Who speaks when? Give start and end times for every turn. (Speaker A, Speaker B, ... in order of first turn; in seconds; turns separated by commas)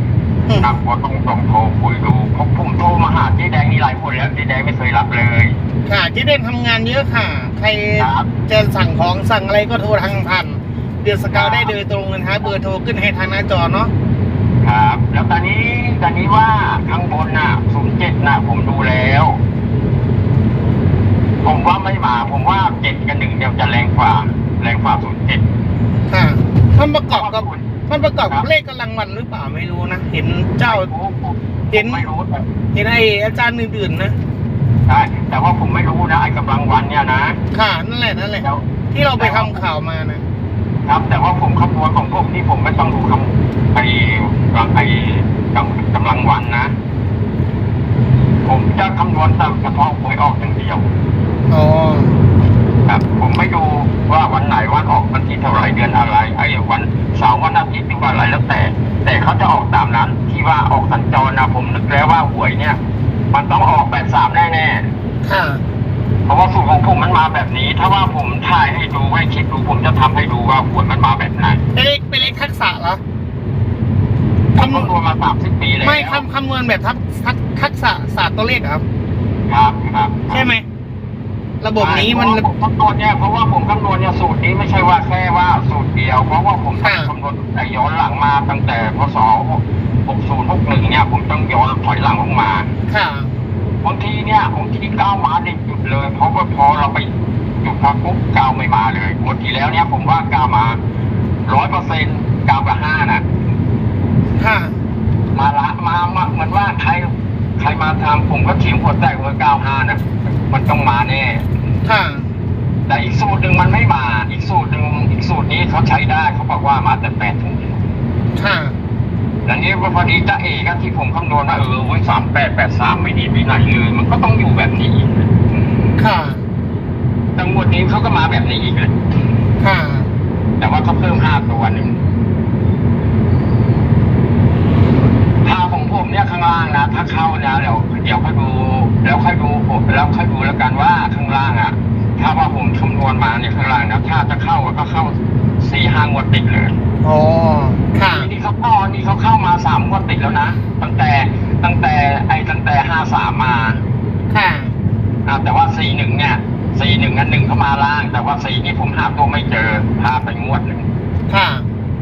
Speaker A: 0.5-0.7, Speaker B: 0.6-5.6, Speaker A: 5.8-13.9, Speaker B: 8.0-8.3, Speaker B: 11.3-11.7, Speaker B: 14.6-19.4, Speaker B: 21.4-25.4, Speaker A: 26.1-30.9, Speaker B: 27.1-27.7, Speaker B: 30.6-32.5, Speaker A: 31.7-32.1, Speaker A: 32.7-34.1, Speaker B: 34.9-37.4, Speaker A: 37.5-40.2, Speaker B: 39.2-39.6, Speaker B: 40.8-46.7, Speaker B: 48.5-50.9, Speaker A: 51.5-52.2, Speaker B: 52.9-62.8, Speaker B: 63.3-64.9, Speaker A: 65.2-65.6, Speaker B: 66.3-71.6, Speaker A: 71.7-73.0, Speaker A: 74.5-74.9, Speaker B: 74.5-76.2, Speaker A: 75.8-78.8, Speaker B: 79.5-80.5, Speaker A: 80.3-80.6, Speaker A: 81.6-82.5, Speaker B: 81.8-92.7, Speaker A: 86.8-87.1, Speaker A: 92.9-93.3, Speaker B: 93.8-97.1, Speaker B: 97.6-100.8, Speaker B: 101.4-103.2, Speaker A: 104.4-104.8, Speaker B: 105.3-111.4, Speaker A: 111.8-112.3, Speaker B: 112.9-117.8, Speaker A: 118.3-118.8, Speaker B: 119.5-125.3, Speaker A: 126.0-126.5, Speaker B: 127.3-129.0, Speaker A: 129.6-130.1, Speaker B: 130.6-132.0, Speaker B: 135.4-146.8, Speaker A: 147.0-148.3, Speaker B: 148.1-153.8, Speaker A: 154.3-154.8, Speaker B: 155.2-160.8, Speaker A: 161.3-161.7